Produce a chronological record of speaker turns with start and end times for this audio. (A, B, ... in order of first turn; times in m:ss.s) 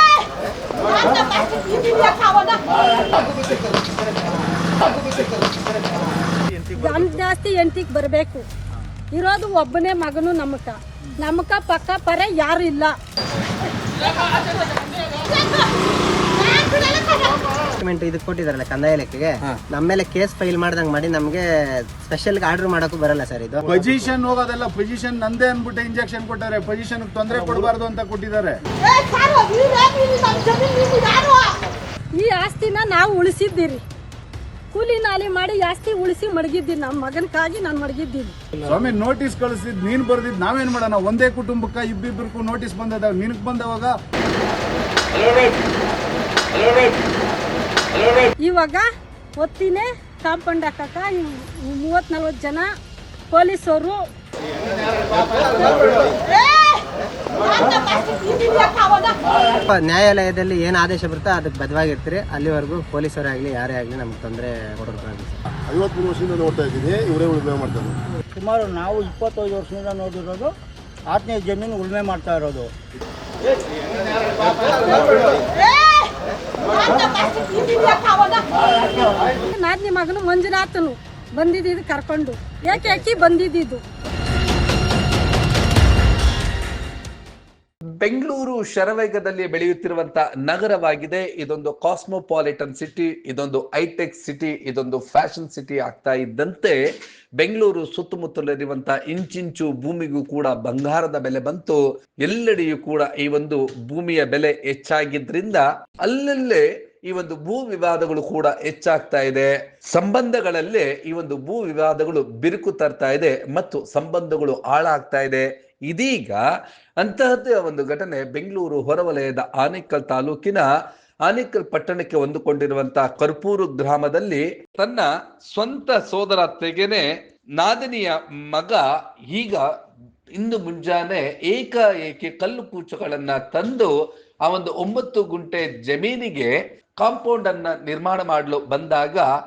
0:01.1-0:02.6 A
0:06.7-0:08.4 A
0:09.1-0:12.9 A
0:17.0-0:17.3 A
0:17.5-0:23.7 B
0:23.7-0:28.6 C
0:28.8-0:31.5 A
0:32.2-0:33.8 A
0:34.7-0:38.4 A
0:38.6-0:43.9 C
0:48.4-0:48.9 A
0:49.4-0:52.7 A
0:53.3-0:54.0 A
0:57.7-0:59.1 A
0:59.7-1:05.4 B
1:05.7-1:08.0 D
1:08.4-1:10.5 E
1:11.1-1:12.7 E
1:16.8-1:18.4 A
1:19.4-1:23.8 A
1:28.0-1:36.8 F
1:37.4-1:56.4 F
1:57.0-2:00.7 F
2:01.3-2:07.0 F
2:07.6-2:09.6 F
2:10.4-2:13.9 F
2:14.4-2:19.3 F